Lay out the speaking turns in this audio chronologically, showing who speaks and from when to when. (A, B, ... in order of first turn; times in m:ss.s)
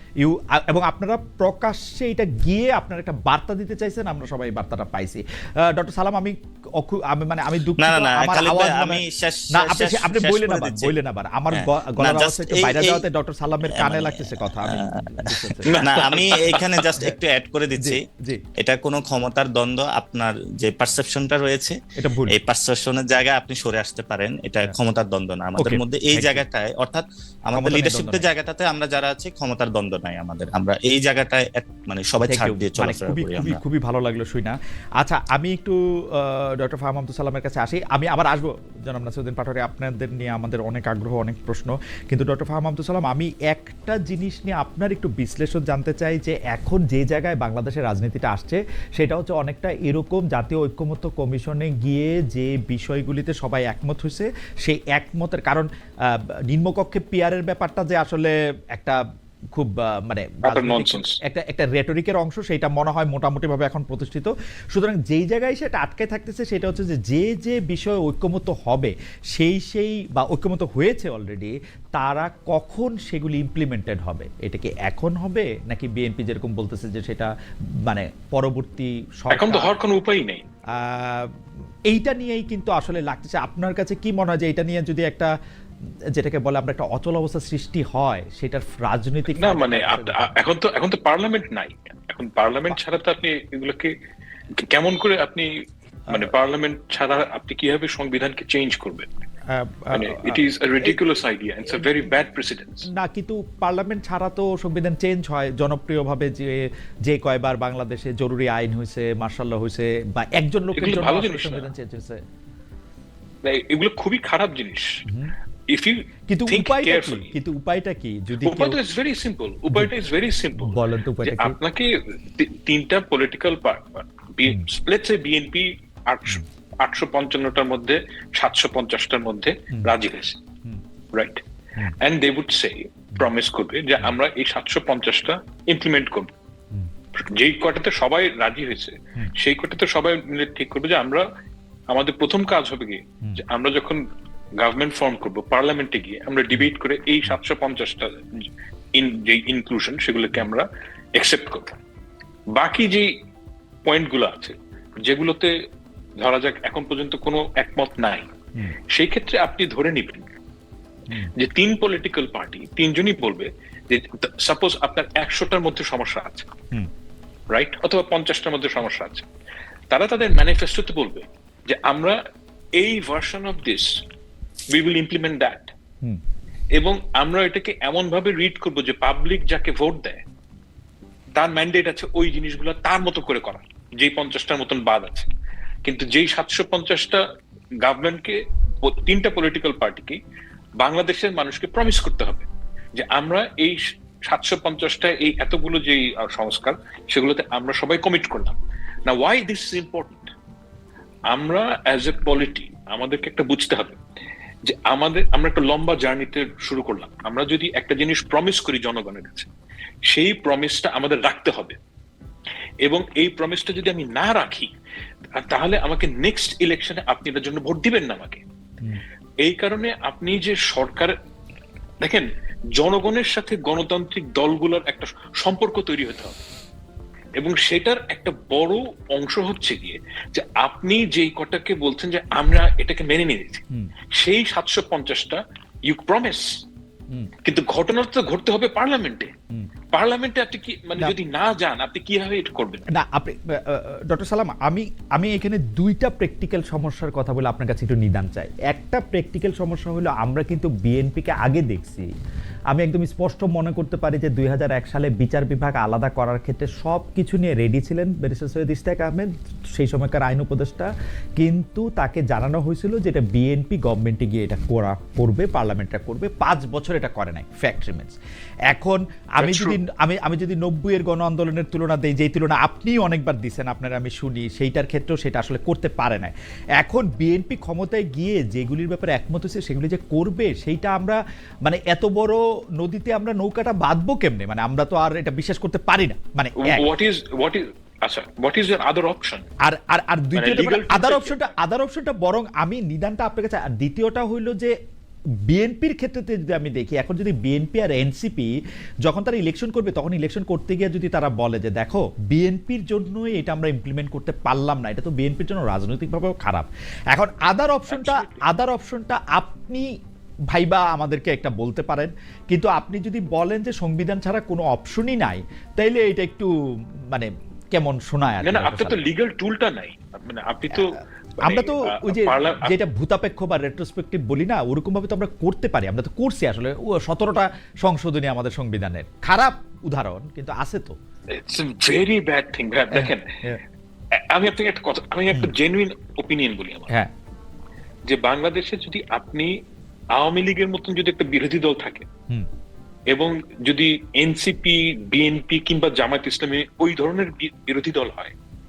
0:00.2-0:09.0 A
0:07.8-0:11.0 B
0:09.5-0:15.8 A
0:11.5-0:13.1 B
0:13.7-0:18.0 B
0:15.7-0:16.8 C
0:17.8-0:18.4 A
0:18.6-0:21.8 B
0:22.0-0:22.4 A
0:22.3-0:33.6 B
0:25.6-0:26.4 A
0:27.5-0:28.3 A
0:32.2-0:59.0 A
0:59.6-1:17.3 A
1:00.4-1:01.2 C
1:17.9-1:19.7 A
1:19.3-1:20.4 C
1:20.8-1:21.3 A
1:21.9-1:25.3 A
1:26.2-1:30.3 A
1:29.3-1:33.9 C
1:34.7-1:35.5 C
1:36.1-1:39.1 C
1:39.5-1:41.0 A
1:39.9-1:42.9 C
1:43.0-1:52.2 A
1:50.7-1:51.7 C
1:53.4-1:54.9 C
1:55.7-1:57.3 C
1:56.3-1:58.8 A
1:58.4-2:10.4 C
2:00.6-2:01.6 A
2:11.1-2:11.4 C
2:12.0-2:16.3 C
2:17.3-2:21.2 C
2:21.9-2:24.0 C
2:24.6-2:31.8 C
2:32.6-2:33.1 C
2:33.8-2:35.5 C
2:36.2-2:38.3 C
2:38.9-2:40.3 C
2:41.4-2:46.5 C
2:47.5-2:49.3 C
2:49.9-2:52.2 C
2:52.8-2:53.9 C
2:54.7-2:55.7 C
2:56.8-3:00.2 C
3:01.4-3:05.3 C
3:05.8-3:07.2 C
3:07.8-3:10.2 C
3:10.8-3:20.3 C
3:21.3-3:24.0 C
3:24.7-3:29.5 C
3:30.1-3:31.8 C
3:32.8-3:34.7 C
3:35.3-3:38.4 C
3:39.4-3:41.1 C
3:42.0-3:46.4 C
3:47.4-3:53.6 C
3:54.1-3:56.5 C
3:57.4-3:59.3 C
3:59.9-4:02.8 C
4:03.0-4:12.1 A
4:12.7-4:28.2 A
4:28.7-4:46.9 A
4:29.4-4:29.8 C
4:46.6-4:49.4 C
4:49.6-4:54.7 A
4:50.3-4:51.5 C
4:55.5-4:58.5 A
4:59.1-5:09.9 A
5:07.9-5:08.4 C
5:10.5-5:16.5 A
5:17.1-5:19.0 A
5:18.4-5:22.7 C
5:21.4-5:31.0 A
5:31.3-5:33.3 C
5:32.9-5:33.6 A
5:34.3-5:36.9 C
5:38.1-5:39.6 C
5:40.1-5:42.0 C
5:43.1-5:48.3 C